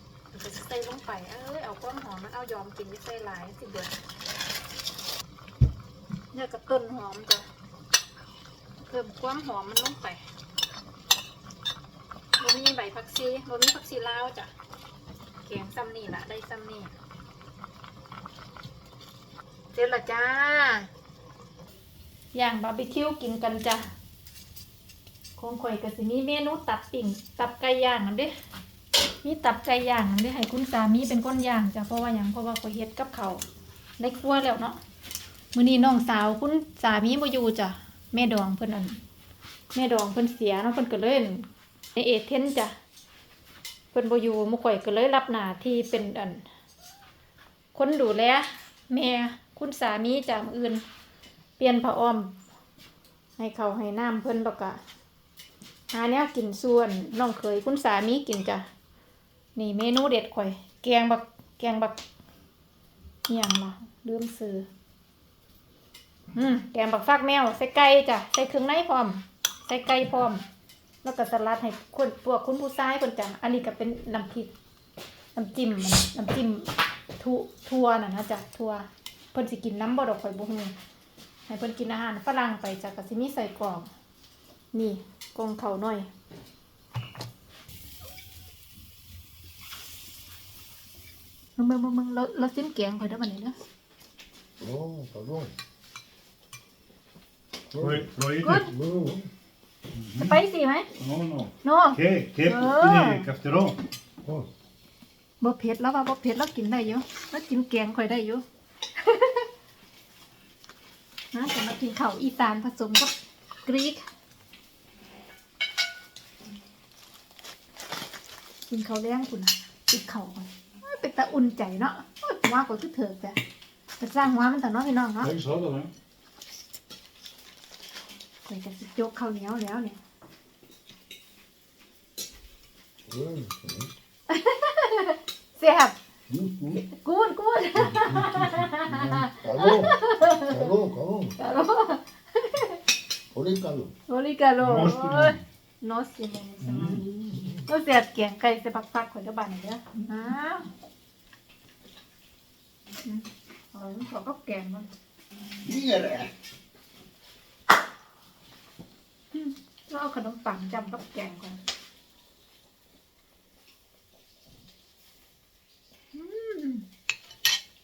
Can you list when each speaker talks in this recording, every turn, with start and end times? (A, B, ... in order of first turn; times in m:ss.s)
0:00.3-0:04.0 A
0:06.3-0:07.5 A
0:08.8-0:10.2 A
0:12.4-0:14.5 A
0:15.4-0:17.0 A
0:19.7-0:20.9 A
0:22.3-0:23.9 A
0:25.4-0:28.3 A
0:29.2-0:33.4 A
0:34.0-0:34.8 A
0:35.5-0:39.0 A
0:39.7-0:42.7 A
0:43.9-0:46.4 A
0:47.7-0:50.8 A
0:51.6-0:52.4 A
0:53.4-0:54.8 A
0:55.9-0:58.7 A
0:59.5-1:02.0 A
1:03.3-1:04.7 A
1:06.3-1:10.4 A
1:11.0-1:14.5 A
1:15.3-1:20.7 A
1:21.5-1:23.9 A
1:24.7-1:26.1 A
1:31.6-1:33.6 A
1:34.6-1:35.5 B
1:37.7-1:39.3 B
1:37.7-1:38.7 C
1:38.4-1:38.7 A
1:39.9-1:40.4 C
1:40.2-1:40.9 A
1:41.0-1:43.8 C
1:41.6-1:43.3 A
1:44.2-1:44.5 B
1:45.4-1:48.4 A
1:49.0-1:49.5 A
1:51.3-1:53.1 A
1:53.6-1:54.1 A
1:58.7-2:03.4 A
2:04.0-2:05.3 A
2:05.2-2:05.9 C
2:08.4-2:10.0 A
2:13.0-2:13.9 B
2:14.3-2:16.0 A
2:16.3-2:16.8 B
2:16.8-2:20.7 A
2:17.9-2:21.4 B
2:21.4-2:22.8 A
2:23.3-2:23.9 B
2:24.1-2:30.7 A
2:24.6-2:25.4 C
2:26.6-2:27.0 C
2:33.0-2:34.9 A
2:35.6-2:36.3 B
2:39.3-2:41.6 A
2:46.1-2:46.8 A